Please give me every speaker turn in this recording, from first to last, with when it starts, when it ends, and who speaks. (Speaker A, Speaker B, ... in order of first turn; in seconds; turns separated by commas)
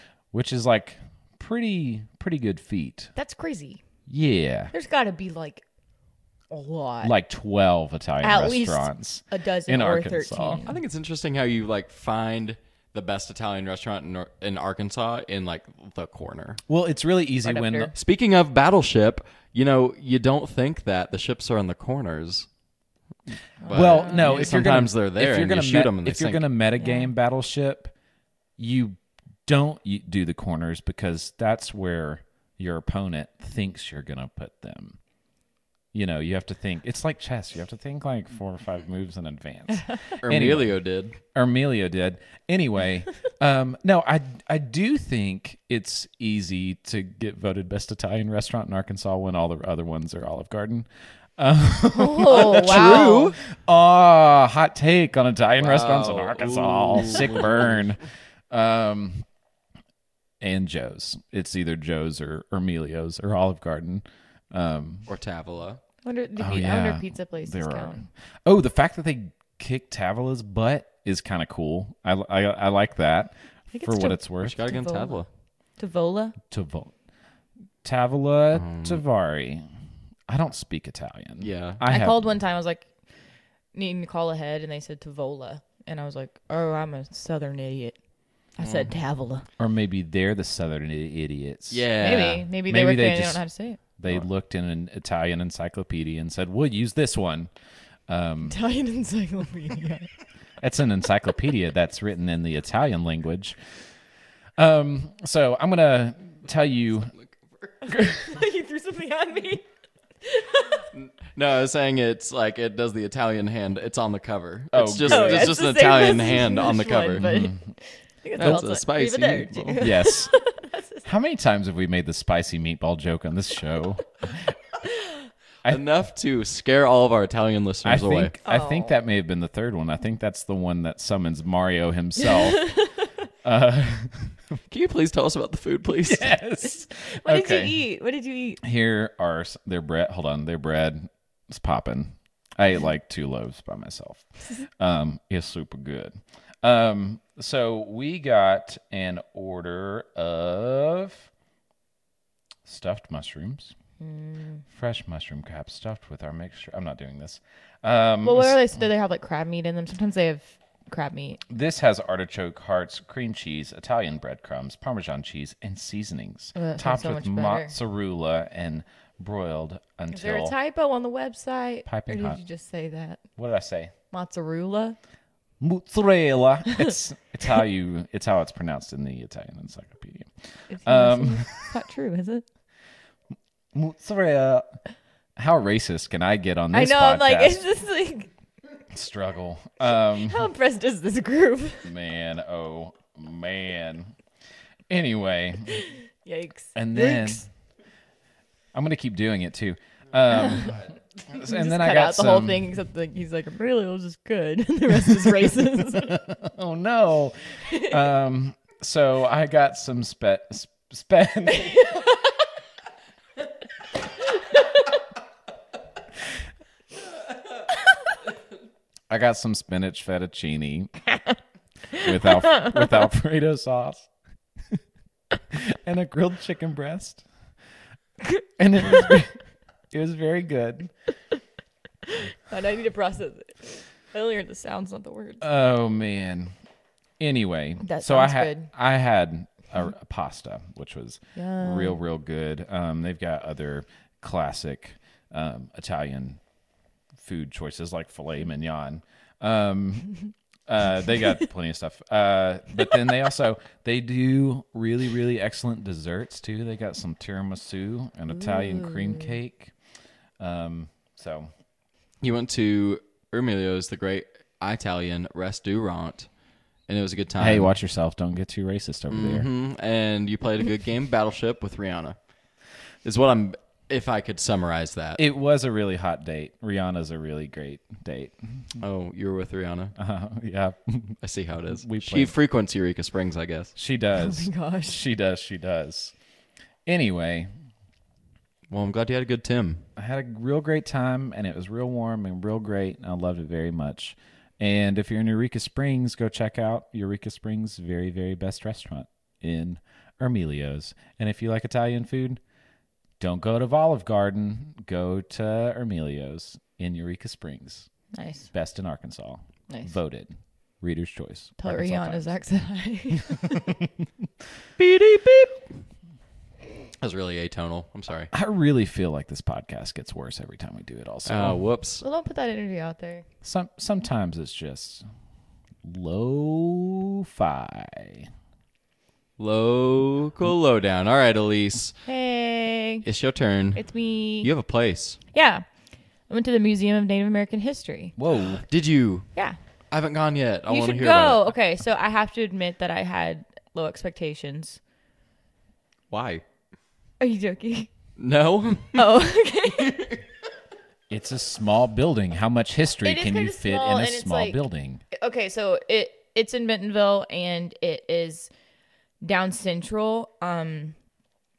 Speaker A: 0.3-3.1, Speaker B: 3.1-3.8, Speaker A: 4.1-4.7, Speaker B: 4.7-5.6, Speaker B: 6.5-7.1, Speaker A: 7.0-10.6, Speaker B: 8.2-10.8, Speaker C: 10.6-16.6, Speaker A: 16.7-17.9, Speaker B: 17.4-17.9, Speaker C: 17.9-22.5, Speaker B: 23.6-24.6, Speaker C: 23.7-26.4, Speaker A: 23.7-27.9, Speaker B: 26.8-27.1, Speaker A: 28.6-35.0, Speaker A: 35.9-40.7, Speaker C: 40.2-41.2, Speaker A: 41.3-50.9, Speaker A: 51.4-59.2, Speaker B: 51.9-53.3, Speaker C: 52.3-53.4, Speaker C: 55.6-57.8, Speaker A: 60.4-65.1, Speaker C: 65.1-65.8, Speaker B: 66.0-68.1, Speaker A: 66.4-74.7, Speaker B: 73.7-75.2, Speaker C: 74.4-75.3, Speaker B: 75.8-76.4, Speaker A: 76.5-76.9, Speaker A: 77.8-79.6, Speaker C: 78.5-79.0, Speaker A: 80.3-82.2, Speaker C: 81.4-81.8, Speaker B: 81.9-82.9, Speaker B: 83.7-88.0, Speaker B: 88.6-89.4, Speaker C: 88.6-88.9, Speaker A: 89.6-91.9, Speaker C: 91.7-92.4, Speaker B: 92.0-93.8, Speaker A: 92.7-93.4, Speaker A: 94.0-97.5, Speaker A: 98.1-98.5, Speaker B: 98.5-100.1, Speaker A: 100.6-103.6, Speaker A: 104.6-107.1, Speaker C: 107.1-107.5, Speaker B: 107.9-109.6, Speaker A: 107.9-108.2, Speaker B: 110.2-110.9, Speaker C: 110.9-117.3, Speaker A: 114.7-115.7, Speaker B: 115.1-121.0, Speaker A: 117.2-117.6, Speaker C: 118.4-119.9, Speaker A: 119.8-120.3, Speaker A: 121.0-124.4, Speaker C: 125.7-128.3, Speaker A: 127.8-132.8, Speaker B: 128.4-128.9, Speaker B: 132.4-133.1, Speaker A: 133.4-134.4, Speaker C: 134.7-136.3, Speaker A: 136.0-137.8, Speaker B: 136.9-138.6, Speaker A: 138.6-151.3, Speaker A: 152.6-153.7, Speaker B: 154.0-154.6, Speaker A: 154.7-158.6, Speaker B: 158.2-161.4, Speaker A: 161.5-170.5, Speaker B: 166.5-167.7, Speaker B: 170.1-173.2, Speaker A: 171.9-172.4, Speaker A: 173.4-173.9, Speaker B: 174.1-175.0, Speaker A: 175.6-181.7, Speaker B: 180.7-182.4, Speaker A: 183.7-184.8, Speaker A: 185.4-187.6, Speaker B: 186.7-188.3, Speaker A: 188.9-190.5, Speaker B: 190.1-191.9, Speaker A: 191.8-194.1, Speaker A: 194.9-195.8, Speaker B: 196.2-197.5, Speaker A: 196.8-197.4, Speaker A: 198.7-202.7, Speaker B: 201.4-206.2, Speaker A: 205.9-212.1, Speaker B: 207.7-207.9, Speaker B: 211.6-212.1, Speaker A: 219.1-221.0, Speaker A: 221.9-224.1, Speaker A: 225.5-227.2, Speaker A: 228.6-229.4, Speaker A: 229.9-230.9, Speaker B: 232.1-235.4, Speaker A: 235.4-236.5, Speaker A: 237.2-246.4, Speaker B: 237.8-238.7, Speaker B: 241.4-242.0, Speaker A: 247.2-259.7, Speaker B: 258.4-259.4, Speaker A: 260.4-261.5, Speaker C: 262.2-266.3, Speaker C: 266.9-267.7, Speaker A: 267.4-269.5, Speaker C: 269.1-272.2, Speaker C: 273.0-275.2, Speaker A: 275.2-278.6, Speaker C: 278.8-279.9, Speaker A: 279.9-281.2, Speaker C: 281.2-283.7, Speaker A: 281.7-282.3, Speaker A: 283.8-286.1, Speaker B: 284.1-285.0, Speaker A: 286.9-287.5, Speaker C: 288.7-289.9, Speaker A: 290.0-302.4, Speaker A: 303.2-307.9, Speaker B: 308.1-308.5, Speaker A: 308.5-312.3, Speaker B: 309.7-309.9, Speaker B: 311.6-313.7, Speaker A: 313.3-313.9, Speaker C: 314.8-315.6, Speaker C: 317.0-318.3, Speaker A: 318.3-321.6, Speaker C: 321.2-322.0, Speaker B: 322.0-323.2, Speaker A: 323.4-325.0, Speaker A: 325.8-328.3, Speaker C: 329.4-332.0, Speaker B: 332.1-333.0, Speaker C: 333.0-333.8, Speaker B: 333.8-334.5, Speaker C: 334.4-335.2, Speaker B: 335.3-335.6, Speaker B: 336.3-338.1, Speaker A: 338.2-338.6, Speaker C: 338.6-339.3, Speaker C: 339.9-341.5, Speaker B: 340.7-344.8, Speaker C: 346.1-346.4, Speaker B: 347.2-347.9, Speaker C: 348.2-349.2, Speaker B: 348.9-350.1, Speaker C: 349.8-350.2, Speaker A: 351.1-355.0, Speaker B: 353.0-354.6, Speaker B: 355.1-358.5, Speaker B: 359.2-361.0